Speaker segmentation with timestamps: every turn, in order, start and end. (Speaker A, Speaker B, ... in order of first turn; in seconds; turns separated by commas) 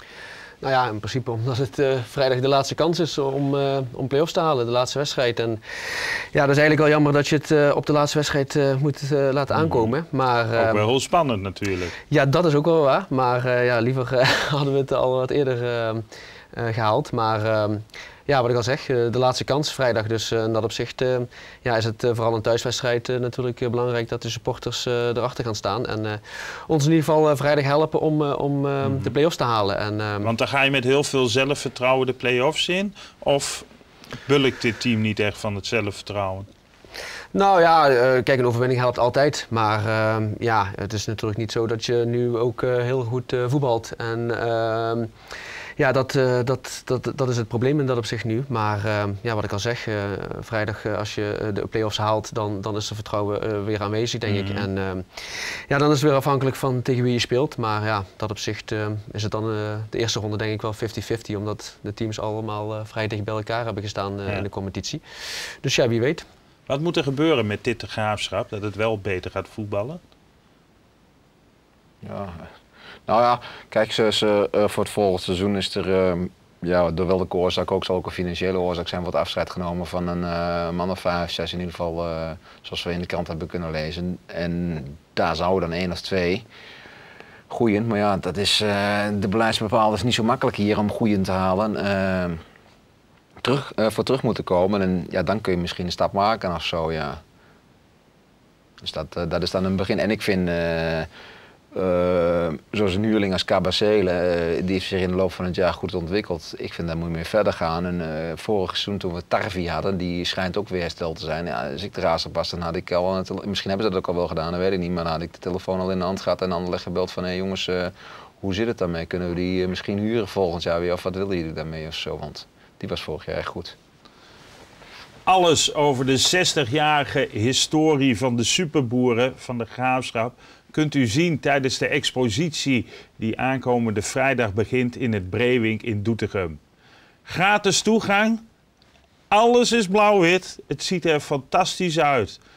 Speaker A: 0.6-10.8, Speaker B: 9.5-9.9, Speaker B: 10.6-11.9, Speaker A: 12.1-30.3, Speaker B: 28.8-29.1, Speaker B: 30.2-33.7, Speaker B: 34.2-36.5, Speaker A: 37.3-45.1, Speaker A: 45.8-66.3, Speaker B: 54.3-54.7, Speaker B: 66.7-70.0, Speaker C: 72.0-72.5, Speaker C: 73.1-86.5, Speaker C: 87.5-92.4, Speaker C: 93.4-97.2, Speaker C: 98.8-101.1, Speaker C: 101.7-123.8, Speaker B: 125.3-136.6, Speaker B: 137.3-138.4, Speaker B: 139.3-142.4